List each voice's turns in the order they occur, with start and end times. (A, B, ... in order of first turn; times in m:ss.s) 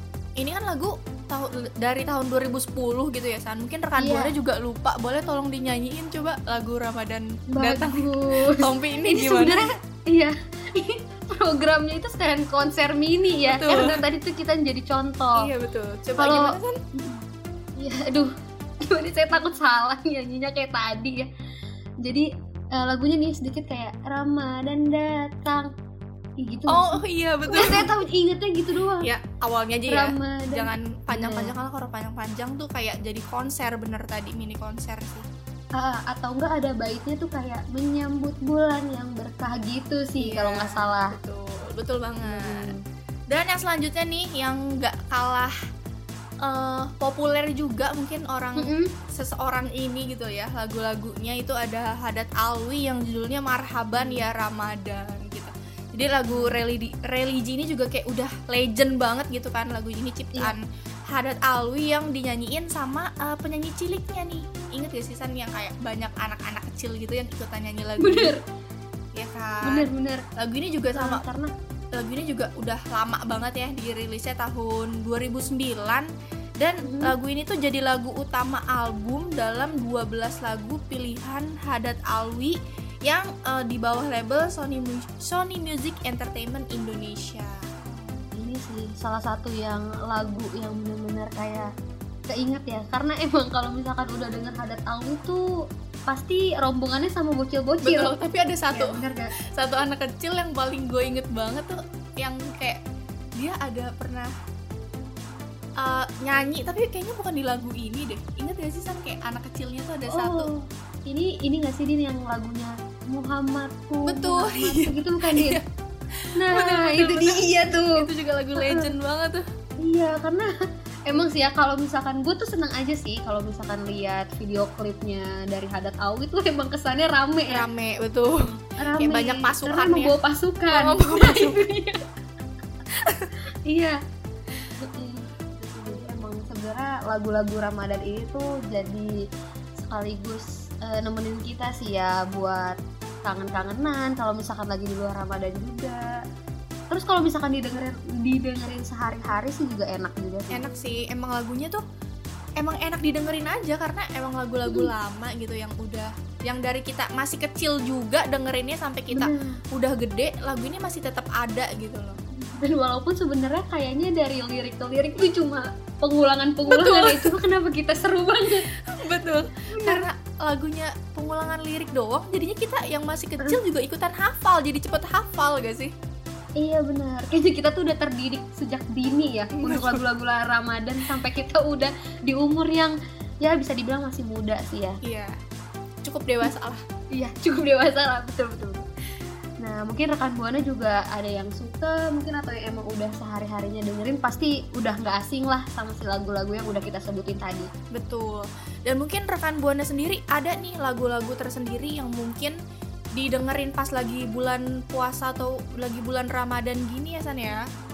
0:00.4-0:09.6 A
0:04.0-0:04.4 B
0:07.5-0:15.5 B
0:13.4-0:14.0 A
0:15.4-0:16.8 A
0:16.2-0:17.2 B
0:17.8-0:18.3 B
0:18.9-0:21.3 B
0:22.0-0:25.7 B
0:26.4-0:29.1 B
0:26.7-0:27.9 A
0:29.0-0:35.3 A
0:29.9-0:31.6 B
0:35.8-0:41.2 B
0:40.2-0:42.7 A
0:42.2-0:42.8 B
0:43.3-0:45.5 A
0:46.4-1:08.4 A
0:48.6-0:48.9 B
0:53.9-0:54.3 B
0:56.3-0:56.6 B
1:08.0-1:08.4 B
1:09.1-1:11.2 A
1:09.6-1:10.2 B
1:10.9-1:11.5 B
1:12.0-1:28.2 A
1:16.8-1:17.2 B
1:28.4-1:31.7 B
1:32.3-1:35.4 B
1:36.1-1:39.3 B
1:37.8-1:42.8 A
1:43.4-1:44.3 A
1:45.8-1:50.5 A
1:50.1-1:55.6 B
1:54.1-1:55.6 A
1:56.2-1:59.4 A
1:56.4-1:58.0 B
1:58.6-1:58.9 B
1:59.8-2:00.5 B
2:01.1-2:07.6 B
2:07.5-2:10.2 A
2:08.4-2:12.0 B
2:10.7-2:11.6 A
2:12.9-2:13.3 A
2:13.7-2:14.0 B
2:14.8-2:19.1 B
2:19.8-2:26.0 B
2:26.9-2:30.6 B
2:30.5-2:31.8 A
2:32.6-2:42.2 A
2:34.7-2:34.9 B
2:39.1-2:39.5 B
2:42.3-2:48.7 B
2:46.7-2:47.3 A
2:48.8-2:55.9 A
2:49.7-2:50.1 B
2:56.6-3:05.0 B
2:59.6-3:00.1 A
3:05.0-3:05.4 A
3:06.0-3:06.8 A
3:07.2-3:08.9 B
3:09.6-3:17.7 B
3:17.9-3:22.6 A
3:23.2-3:27.6 A